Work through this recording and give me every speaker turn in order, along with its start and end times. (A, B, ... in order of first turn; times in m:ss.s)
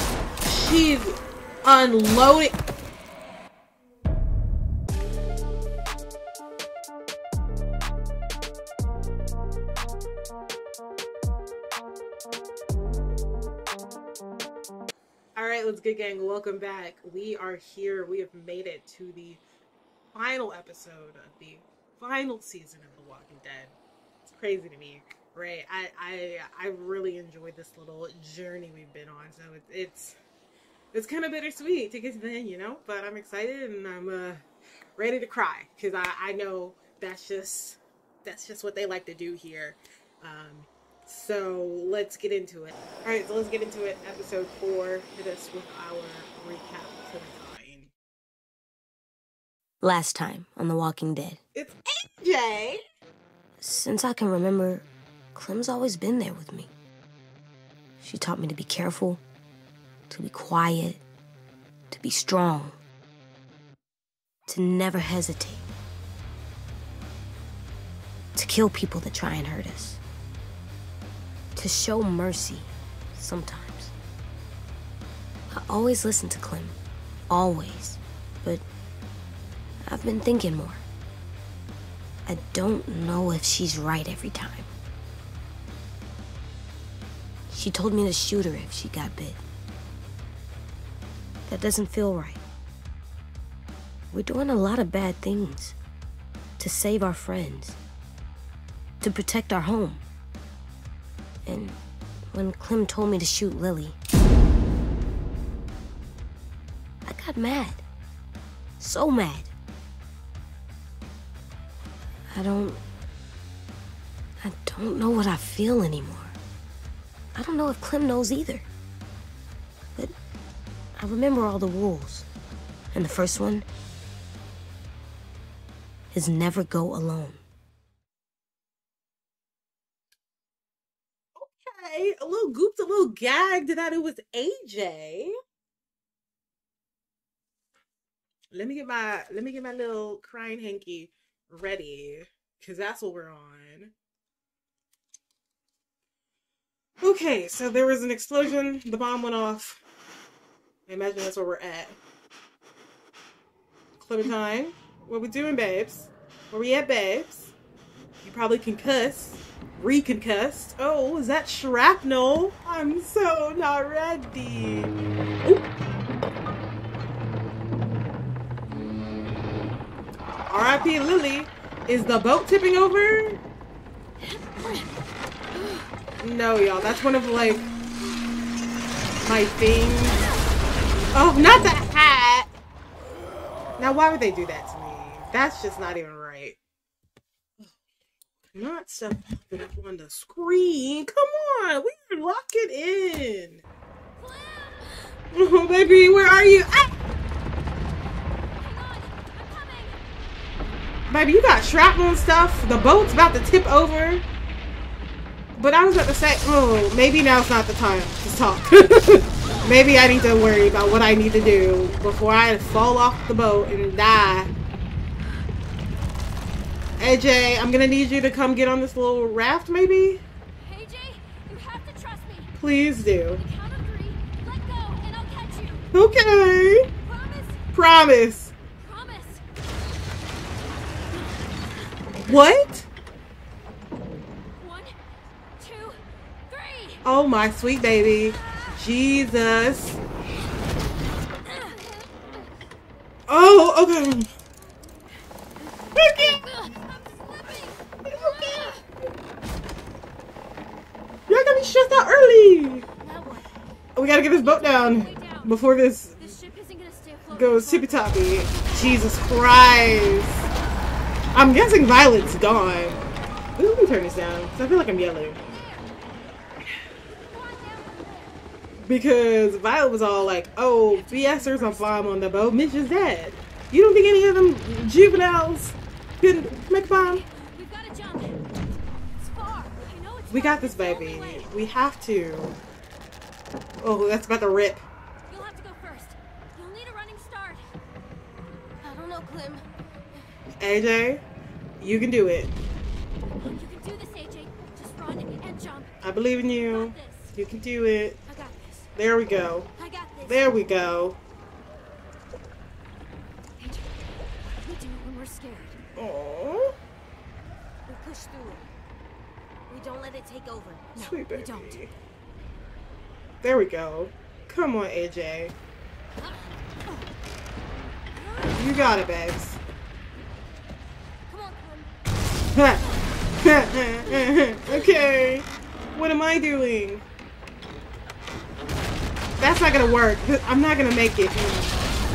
0:00.4-0:02.6 A
0:15.4-0:19.4 A
0:20.1-0:30.2 A
0:30.9-0:34.4 A
0:35.0-0:47.9 A
0:49.8-0:51.4 B
0:51.6-0:52.8 A
0:53.6-0:56.7 B
0:58.0-0:59.2 B
1:00.1-1:01.0 B
1:01.9-1:02.8 B
1:04.5-1:05.7 B
1:08.4-1:10.0 B
1:11.6-1:13.9 B
1:15.5-1:16.8 B
1:17.3-1:18.6 B
1:19.8-1:20.8 B
1:22.3-1:24.7 B
1:27.5-1:29.4 B
1:31.5-1:32.4 B
1:34.1-1:35.8 B
1:36.6-1:37.8 B
1:39.0-1:40.0 B
1:41.5-1:41.8 B
1:42.3-1:44.0 B
1:47.1-1:47.8 B
1:48.8-1:49.5 B
1:52.3-1:52.8 B
1:54.4-1:56.4 B
1:57.3-1:58.7 B
2:01.0-2:02.3 B
2:02.9-2:03.7 B
2:06.1-2:07.4 B
2:11.4-2:15.3 A
2:18.5-2:23.9 A
2:27.0-2:29.8 A
2:30.9-2:32.0 A
2:34.0-2:37.5 A
2:38.2-2:44.9 A
2:50.5-2:53.4 A
2:56.2-2:57.7 A
2:59.2-3:00.3 A
3:01.1-3:02.5 A
3:03.8-3:06.6 A
3:08.6-3:13.6 A
3:14.2-3:15.2 C
3:15.3-3:16.9 A
3:18.6-3:20.0 C
3:21.1-3:24.2 A
3:25.6-3:34.5 A
3:37.0-3:40.2 A
3:40.6-3:42.5 C
3:42.6-3:43.4 A
3:43.4-3:45.9 C
3:45.9-3:46.9 A
3:47.0-3:47.6 C
3:47.7-3:48.5 A
3:48.8-3:49.4 C
3:52.2-3:52.9 A
3:54.6-3:54.9 C
3:55.6-3:57.0 C
3:57.0-4:00.0 A
4:01.5-4:02.1 C
4:03.3-4:04.3 A
4:06.0-4:06.4 A
4:06.0-4:08.8 C
4:11.3-4:12.9 A
4:13.0-4:13.5 C
4:14.0-4:16.4 A
4:14.1-4:15.6 C
4:16.2-4:19.3 C
4:17.3-4:20.5 A
4:21.3-4:23.0 A
4:23.6-4:25.4 A
4:25.5-4:25.9 C
4:27.3-4:28.4 C
4:28.8-4:37.2 A
4:30.9-4:32.1 C
4:36.9-4:38.6 C
4:39.2-4:41.5 C
4:40.3-4:42.6 A
4:43.8-4:44.8 A
4:45.3-4:47.7 C
4:48.8-4:49.6 B
4:50.6-4:51.2 A
4:51.8-4:52.5 A
4:53.4-4:55.9 C
4:56.0-4:58.2 A
4:56.5-4:57.3 C
4:58.3-4:58.9 B
4:59.0-4:59.7 A
4:59.8-5:00.3 B
5:00.3-5:01.2 A
5:03.6-5:05.8 C
5:06.0-5:06.8 A
5:07.9-5:08.7 B
5:09.7-5:10.9 B
5:11.0-5:11.8 C
5:11.0-5:11.9 A
5:13.4-5:15.6 A
5:18.3-5:18.5 B
5:18.6-5:19.6 A
5:21.3-5:21.9 B
5:22.5-5:22.8 A
5:23.4-5:27.0 A
5:29.4-5:31.8 A